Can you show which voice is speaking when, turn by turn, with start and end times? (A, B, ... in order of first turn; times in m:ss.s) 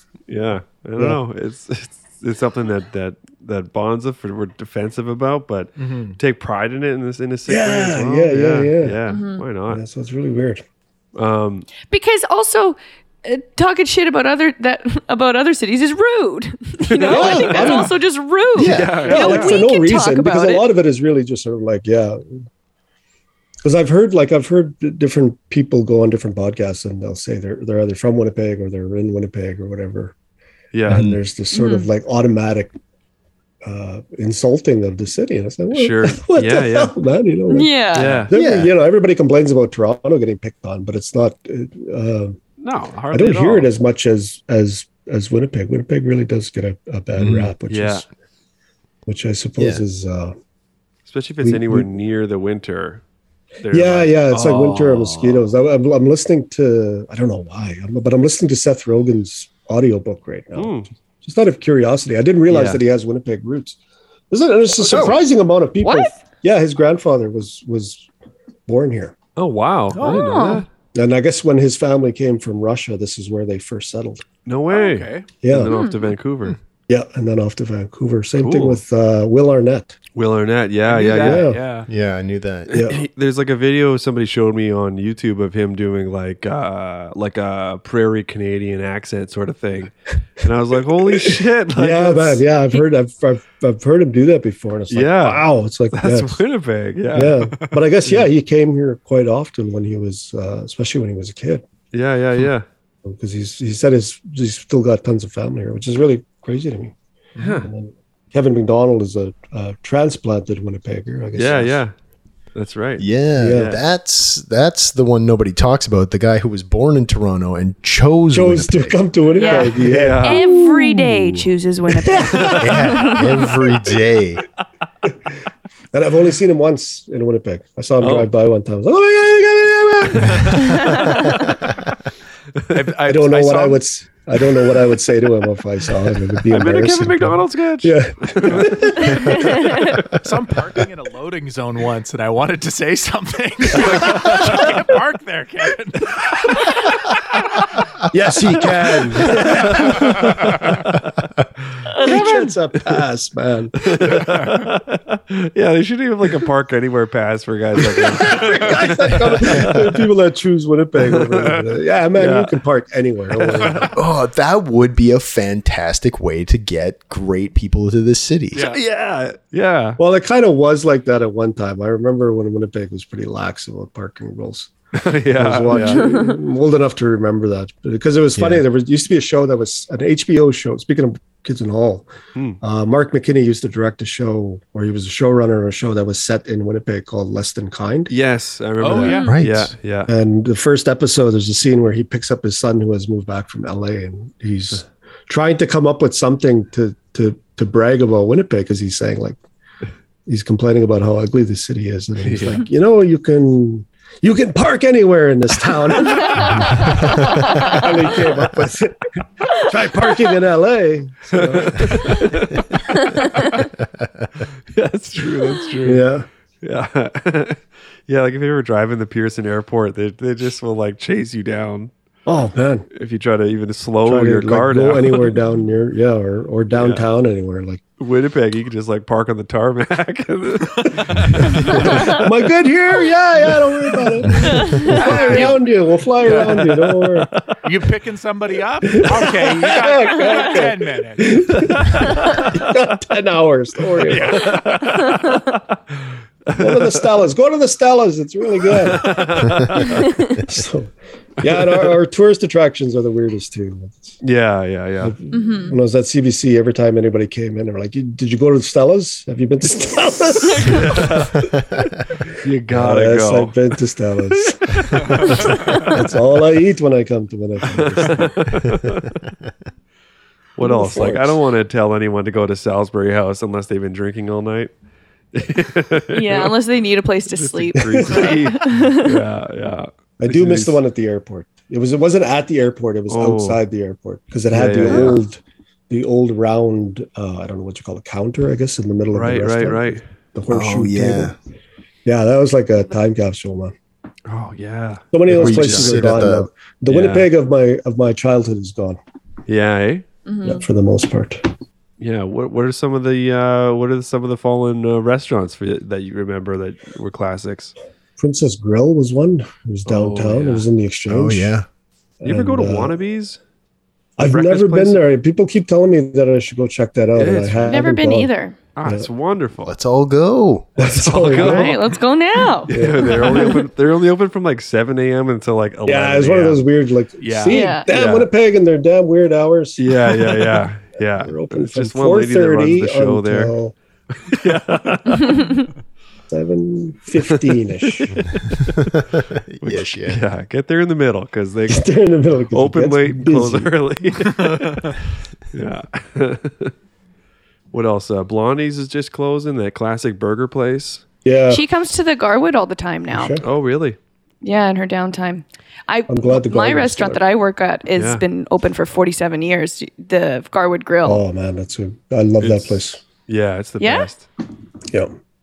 0:00.3-0:09.8 A
0:05.8-0:06.2 B
0:07.5-0:09.0 C
0:09.1-0:09.4 D
0:09.7-0:10.6 C
0:11.2-0:11.7 A
0:11.9-0:20.6 D
0:16.9-0:17.8 A
0:17.1-0:17.9 C
0:18.5-0:19.1 E
0:18.6-0:19.6 A
0:19.0-0:22.4 C
0:23.6-0:30.1 C
0:30.7-0:31.1 A
0:30.8-0:32.7 C
0:30.9-0:31.2 E
0:31.5-0:31.9 D
0:33.6-0:42.4 C
0:35.7-0:36.9 A
0:37.5-0:38.2 D
0:37.9-0:38.3 A
0:38.3-0:38.7 E
0:42.6-0:43.7 A
0:43.1-0:48.0 C
0:47.1-0:47.5 E
0:47.7-0:48.0 A
0:49.0-0:50.3 C
0:49.6-0:49.8 E
0:51.1-0:53.0 A
0:51.4-0:51.9 C
0:53.6-0:55.5 A
0:53.7-1:03.8 C
1:00.5-1:00.9 A
1:02.5-1:02.8 A
1:04.3-1:08.1 C
1:04.8-1:05.2 E
1:05.8-1:06.1 D
1:08.7-1:09.1 C
1:09.4-1:10.6 A
1:09.9-1:10.4 B
1:10.0-1:10.6 D
1:10.0-1:14.2 C
1:14.4-1:16.6 A
1:14.7-1:15.3 B
1:15.4-1:15.7 C
1:15.7-1:16.0 D
1:16.9-1:20.0 C
1:18.4-1:18.8 A
1:20.1-1:21.5 A
1:20.8-1:21.9 B
1:21.2-1:21.6 C
1:21.9-1:22.9 E
1:22.7-1:23.0 C
1:22.8-1:32.4 A
1:31.2-1:36.4 C
1:34.9-1:38.3 A
1:37.1-1:41.6 C
1:41.9-1:42.6 A
1:43.0-1:46.9 C
1:47.4-1:47.7 A
1:47.6-1:51.8 C
1:51.4-1:51.9 A
1:52.5-1:53.8 A
1:53.0-1:59.0 E
1:53.4-1:53.8 C
1:58.3-2:00.6 C
1:59.4-1:59.7 D
1:59.9-2:00.4 A
2:00.2-2:03.2 D
2:01.9-2:02.7 C
2:02.4-2:02.8 A
2:02.6-2:04.4 E
2:05.9-2:11.3 C
2:08.0-2:08.3 A
2:10.1-2:10.8 A
2:10.7-2:11.4 D
2:12.7-2:13.8 B
2:13.0-2:19.7 C
2:16.5-2:19.3 A
2:19.3-2:19.9 D
2:20.2-2:27.7 B
2:28.1-2:30.7 C
2:29.7-2:30.2 B
2:31.9-2:32.2 D
2:32.0-2:33.8 C
2:32.1-2:33.0 A
2:33.8-2:39.7 A
2:34.1-2:34.7 B
2:37.9-2:43.9 C
2:41.0-2:42.6 A
2:43.4-2:43.9 A
2:43.9-2:48.6 E
2:48.5-2:48.8 B
2:48.6-2:50.0 A
2:50.0-2:54.7 C
2:55.0-2:56.3 A
2:55.3-3:02.1 C
2:55.8-2:56.3 D
2:58.4-2:58.6 E
3:02.6-3:08.1 C
3:08.1-3:10.1 A
3:08.8-3:09.3 B
3:08.9-3:09.3 D
3:09.3-3:09.7 E
3:10.1-3:19.4 C
3:20.3-3:32.2 C
3:22.2-3:22.6 A
3:26.2-3:27.9 D
3:31.3-3:33.1 A
3:32.9-3:33.6 D
3:34.0-3:34.3 E
3:34.7-3:36.1 A
3:35.8-3:36.2 C
3:36.6-3:41.9 A
3:42.2-3:42.9 C
3:42.9-3:45.4 A
3:44.0-3:47.8 C
3:46.7-3:47.0 A
3:48.0-3:52.3 A
3:51.6-3:57.3 C
3:54.4-3:55.6 D
3:54.9-3:55.4 A
3:56.2-3:56.7 B
3:56.2-3:57.4 A
3:57.6-4:01.3 B
3:58.8-4:04.6 C
4:01.6-4:02.6 A
4:04.1-4:04.8 B
4:04.3-4:05.6 A
4:06.4-4:07.2 A
4:06.5-4:09.2 C
4:08.7-4:10.2 A
4:10.4-4:14.2 C
4:11.4-4:12.0 A
4:14.2-4:15.1 A
4:15.0-4:21.3 C
4:15.3-4:15.8 D
4:20.6-4:21.5 A
4:21.4-4:21.8 E
4:22.4-4:23.6 A
4:22.7-4:28.4 C
4:24.3-4:25.9 A
4:27.7-4:29.2 A
4:30.6-4:34.7 A
4:30.6-4:31.4 C
4:35.3-4:36.6 A
4:36.1-4:39.2 D
4:37.3-4:40.8 A
4:37.8-4:38.4 C
4:40.2-4:51.3 C
4:43.1-4:43.6 A
4:44.5-4:45.2 A
4:49.1-4:50.0 A
4:50.5-4:51.4 E
4:52.0-4:53.7 C
4:54.3-4:56.1 A
4:55.1-4:59.0 C
4:55.3-4:56.5 E
4:56.9-4:57.3 A
4:59.5-5:00.0 A
5:00.2-5:00.6 D
5:00.4-5:01.4 C
5:02.0-5:07.7 A
5:08.2-5:11.5 C
5:09.8-5:10.7 A
5:11.1-5:11.6 E
5:12.2-5:12.9 C
5:12.2-5:13.4 A
5:14.2-5:18.3 C
5:14.2-5:15.0 A
5:17.2-5:17.8 A
5:17.6-5:18.6 D
5:18.8-5:19.7 A
5:19.6-5:20.7 E
5:20.8-5:21.8 C
5:20.8-5:21.8 A
5:21.4-5:23.6 D
5:22.7-5:23.6 C
5:22.7-5:26.6 A
5:25.8-5:33.7 C
5:27.2-5:27.7 B
5:27.5-5:27.9 D
5:27.9-5:28.3 A
5:29.8-5:33.5 A
5:34.3-5:35.4 A
5:35.2-5:35.6 D
5:36.3-5:38.1 C
5:38.0-5:38.9 A
5:38.7-5:40.2 E
5:39.6-5:41.9 A
5:41.7-5:43.7 C
5:42.5-5:45.0 A
5:44.6-5:44.9 B
5:45.5-5:46.7 A
5:47.7-5:51.0 A
5:51.2-5:51.6 C
5:51.5-5:53.4 D
5:53.1-5:53.4 C
5:53.4-5:54.0 A
5:54.4-6:01.2 D
5:56.1-5:57.2 C
5:58.0-5:58.2 A
6:01.0-6:03.0 C
6:02.4-6:04.3 A
6:03.8-6:04.1 D
6:04.9-6:05.1 C